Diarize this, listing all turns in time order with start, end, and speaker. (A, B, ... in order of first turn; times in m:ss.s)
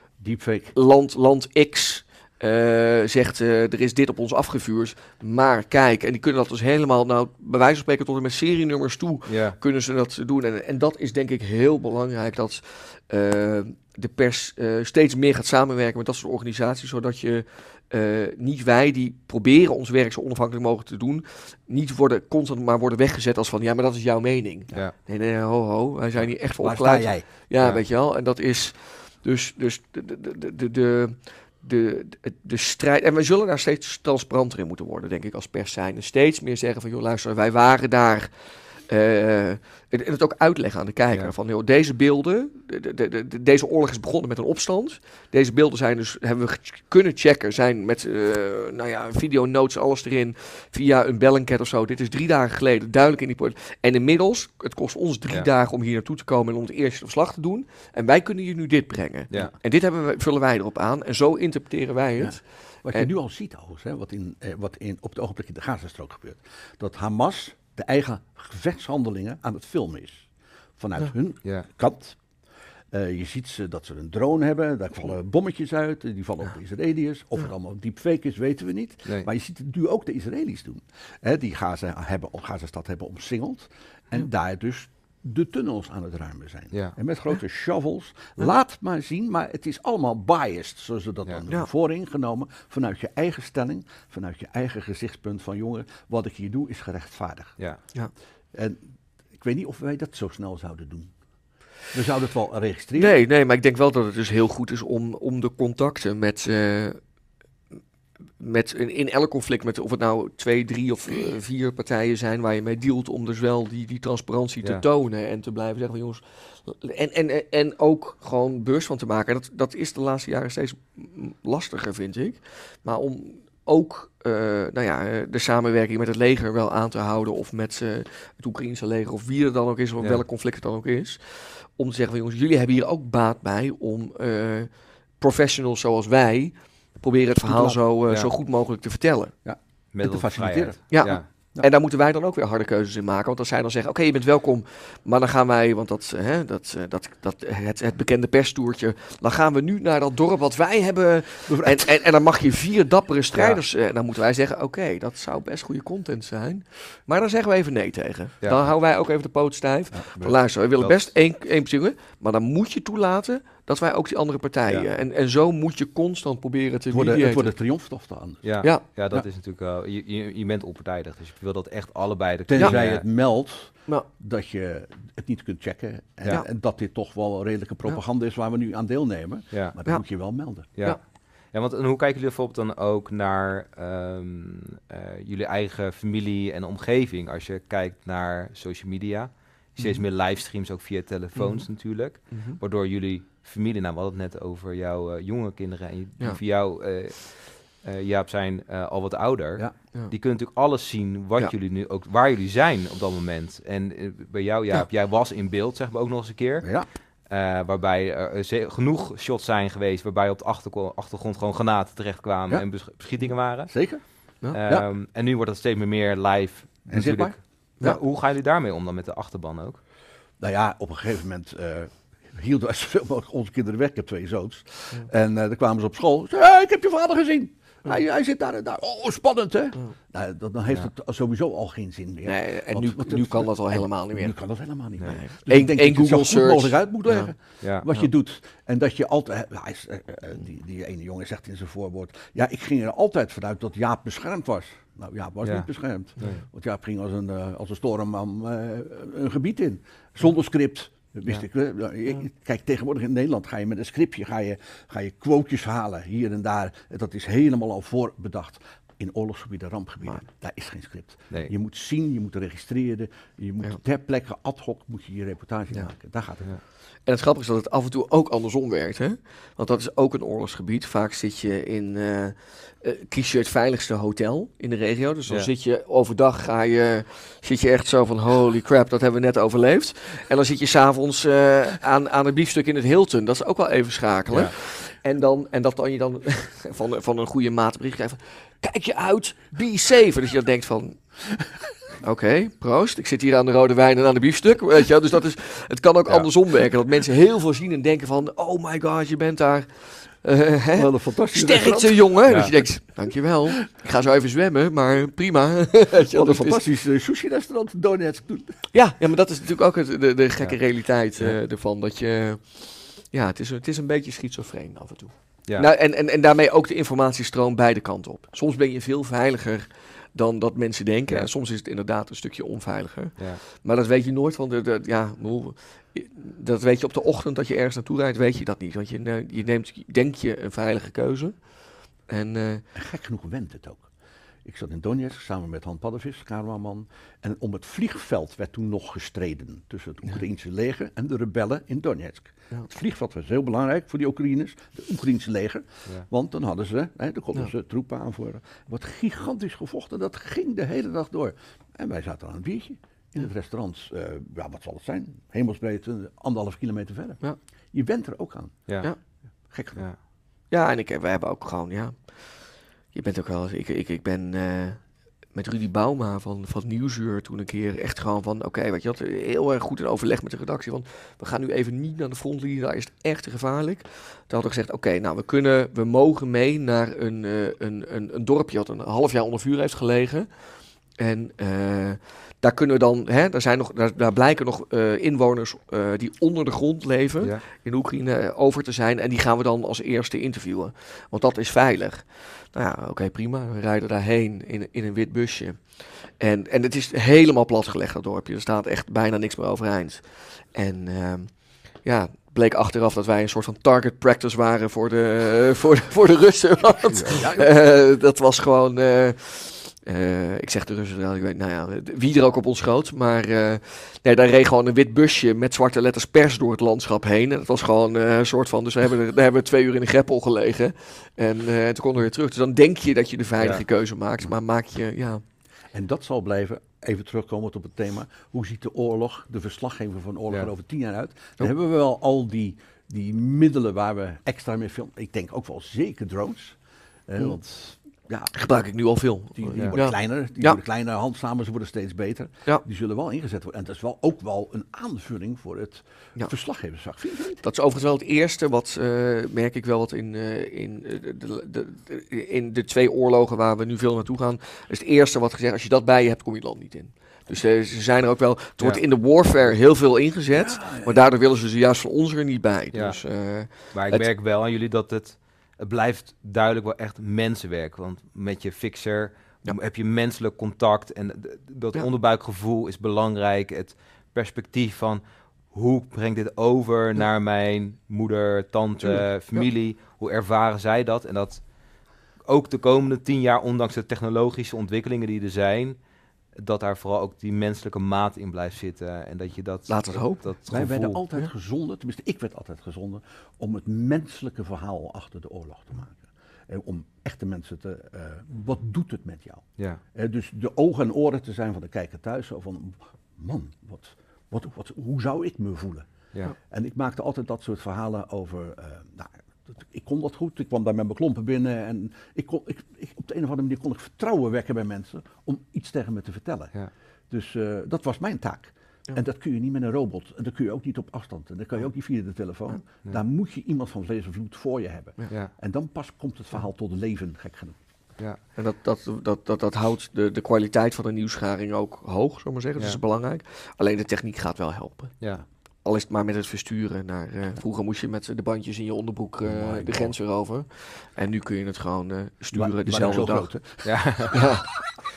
0:00.2-0:00.8 A
0:00.7-1:03.1 B
0:09.3-0:09.6 C
0:26.6-0:27.3 A
0:27.6-0:27.8 C
0:59.3-0:59.6 C
1:02.2-1:12.3 A
1:12.9-1:37.6 A
1:38.5-1:41.2 A
1:41.8-1:43.2 A
1:43.0-1:47.0 B
1:48.4-2:19.3 B
2:10.0-2:10.2 C
2:17.4-2:17.8 A
2:19.4-2:21.7 A
2:19.9-2:21.3 C
2:20.9-2:47.5 B
2:31.5-2:31.9 A
2:33.3-2:33.6 C
2:39.9-2:40.4 A
2:40.8-2:41.1 C
2:46.9-2:48.5 A
2:48.4-2:53.0 C
2:52.5-3:00.7 A
2:59.5-2:59.8 C
3:00.6-3:01.0 B
3:00.8-3:33.8 C
3:11.4-3:11.7 B
3:12.3-3:12.6 B
3:26.6-3:26.9 A
3:33.7-3:34.0 A
3:34.4-3:39.8 C
3:34.6-3:34.9 A
3:36.9-3:37.4 A
3:40.4-4:26.6 A
3:52.2-3:54.4 B
3:55.0-3:57.3 B
3:57.6-3:57.9 C
4:05.4-4:06.4 C
4:27.0-5:06.7 B
5:00.8-5:02.2 A
5:02.2-5:02.5 C
5:06.1-5:08.7 A
5:08.7-5:32.7 B
5:32.7-5:33.9 A
5:34.4-5:58.8 A
5:58.7-5:58.9 C
5:59.4-5:59.9 A
6:00.5-7:05.2 B
6:46.8-6:47.6 A
7:05.7-7:18.4 A
7:18.3-7:20.6 B
7:19.4-7:27.4 A
7:27.4-7:44.1 B
7:40.3-7:41.0 A
7:42.7-8:01.5 C
7:58.8-7:59.5 B
8:02.2-8:11.0 C
8:09.7-8:10.6 B
8:10.5-8:47.6 A
8:48.3-8:55.0 B
8:55.6-9:03.4 B
8:59.2-9:00.0 A
9:02.3-9:03.9 A
9:03.6-9:04.7 C
9:04.1-9:04.5 B